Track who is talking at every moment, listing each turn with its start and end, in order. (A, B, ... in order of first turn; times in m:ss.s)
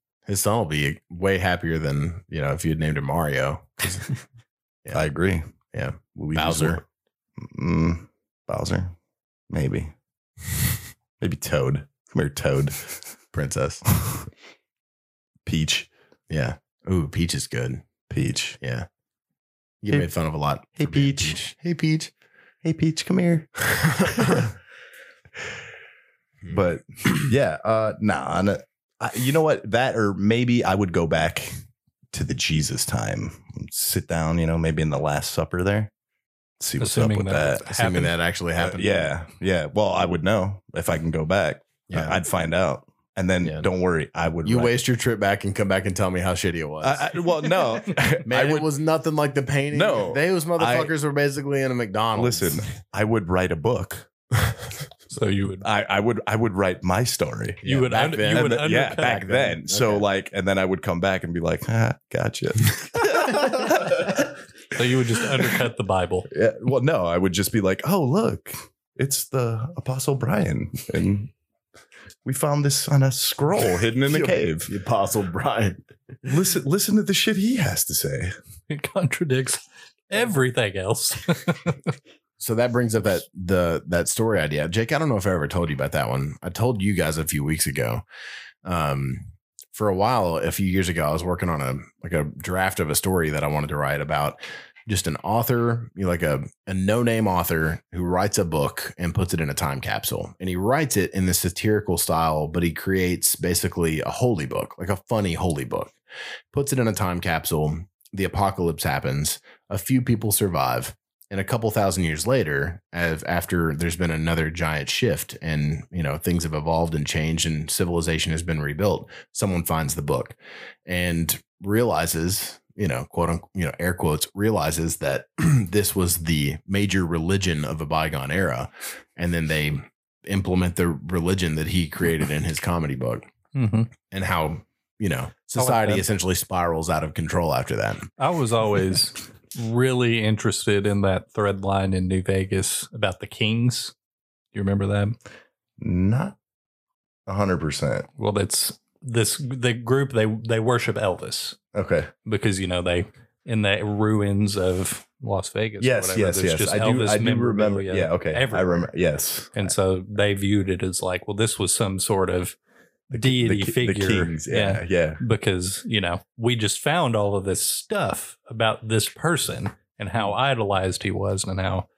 0:00.3-0:04.2 A
0:04.9-0:05.4 B
0:05.7-0:06.8 A
0:06.2-0:06.8 B
0:07.4-0:08.9 B
0:09.5-0:09.9 B
0:11.2-0:13.0 B
0:13.3-0:13.8 A
0:14.0-0:14.3 B
0:15.5-0:15.9 B
0:16.3-0:17.8 A
0:18.1-0:18.6 B
0:18.6-0:18.9 A
0:19.8-0:22.1 A
0:20.8-0:21.4 B
0:22.6-0:24.5 B
0:23.7-0:24.5 A
0:26.5-0:31.5 B
0:32.1-0:35.9 B
0:36.6-0:37.6 B
0:36.8-0:38.1 C
0:37.6-0:39.1 A
0:38.6-0:44.8 B
0:41.9-0:42.2 A
0:43.4-0:43.7 A
0:44.4-0:47.1 A
0:46.8-0:48.7 B
0:48.3-0:52.6 A
0:49.7-0:50.9 B
0:52.2-0:54.1 B
0:55.1-0:55.7 C
0:55.6-0:57.6 B
0:57.6-1:00.1 A
0:57.6-0:59.2 C
0:58.3-1:04.3 B
1:04.7-1:06.3 C
1:06.3-1:11.3 B
1:12.2-1:14.7 B
1:14.1-1:15.8 A
1:16.2-1:18.3 B
1:18.7-1:21.9 C
1:22.4-1:28.0 A
1:28.6-1:45.9 A
1:46.5-2:13.3 A
2:13.6-2:13.9 C
2:14.0-2:18.1 A
2:15.6-2:16.0 C
2:18.2-2:23.9 C
2:24.5-2:25.2 C
2:25.8-2:26.4 B
2:27.3-2:28.1 B
2:28.2-2:31.6 C
2:31.7-2:32.1 B
2:32.2-2:38.9 C
2:35.8-2:39.7 B
2:39.6-2:42.6 C
2:43.1-2:45.2 B
2:43.1-2:51.9 C